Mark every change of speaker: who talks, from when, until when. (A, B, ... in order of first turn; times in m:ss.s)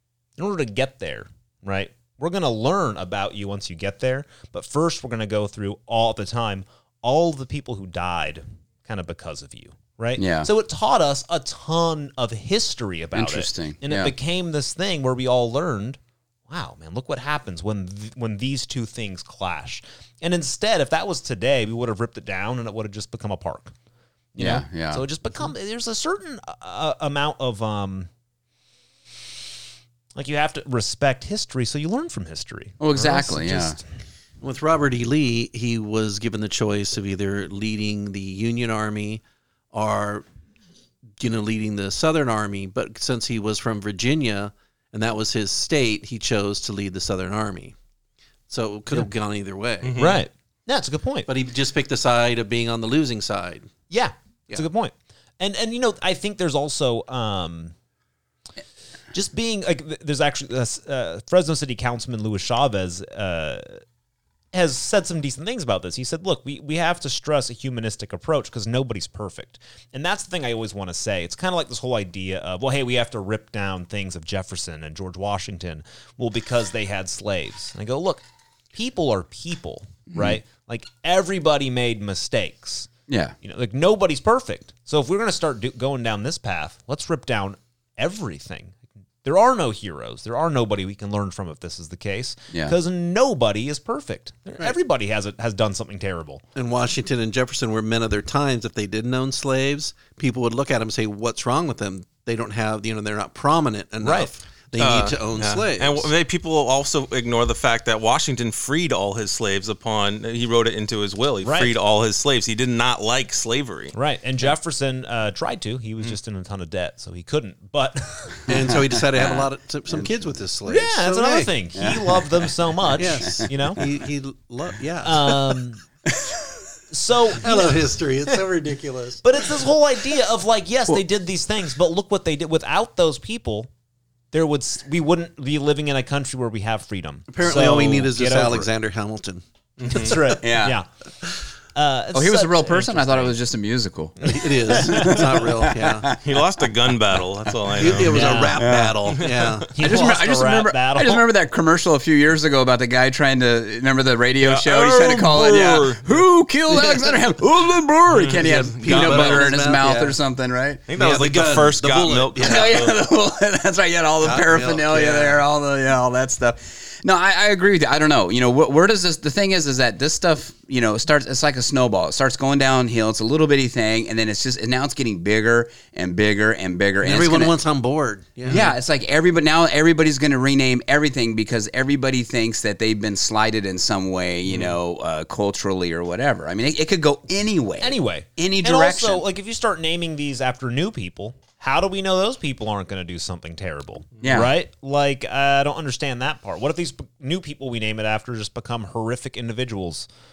0:00.4-0:23.7 A
0:10.2-0:10.5 B
0:13.1-0:14.1 B
0:24.3-0:28.1 A
0:24.4-0:25.0 B
0:30.1-0:33.8 A
0:32.8-0:33.8 B
0:34.4-0:39.2 C
0:39.7-0:40.2 C
0:41.2-0:47.7 C
0:48.5-0:50.0 C
0:49.8-0:50.2 D
0:50.0-0:51.3 A
0:51.3-0:53.7 C
0:53.9-0:57.7 A
0:59.1-1:03.8 A
1:04.5-1:22.9 A
1:20.1-1:20.4 B
1:23.1-1:23.3 B
1:23.4-1:36.4 A
1:36.5-1:46.1 C
1:44.0-1:44.3 A
1:44.8-1:53.9 D
1:51.4-1:51.7 A
1:53.9-1:58.7 A
1:58.5-2:01.5 C
1:59.2-2:00.1 B
2:00.6-2:03.8 A
2:01.7-2:03.8 B
2:03.0-2:05.4 C
2:05.0-2:05.8 A
2:06.0-2:06.6 B
2:06.9-2:08.4 A
2:07.4-2:09.5 C
2:09.2-2:13.7 A
2:14.3-2:18.7 A
2:17.3-2:20.4 C
2:19.8-2:20.1 D
2:19.9-2:20.9 A
2:20.4-2:20.8 B
2:21.7-2:23.4 A
2:22.1-2:26.2 B
2:24.2-2:26.1 C
2:24.8-2:25.1 A
2:26.2-2:28.5 D
2:27.8-2:29.8 C
2:28.0-2:28.6 A
2:28.5-2:29.0 B
2:29.1-2:29.6 D
2:29.7-2:31.2 A
2:29.8-2:40.8 B
2:34.4-2:36.2 D
2:36.7-2:37.2 C
2:38.1-2:39.5 D
2:38.3-2:40.1 C
2:40.9-2:42.9 D
2:41.0-2:42.7 C
2:42.4-2:57.5 B
2:44.2-2:45.4 C
2:57.0-2:58.7 C
2:58.5-3:09.2 B
3:07.8-3:20.1 A
3:14.2-3:14.5 B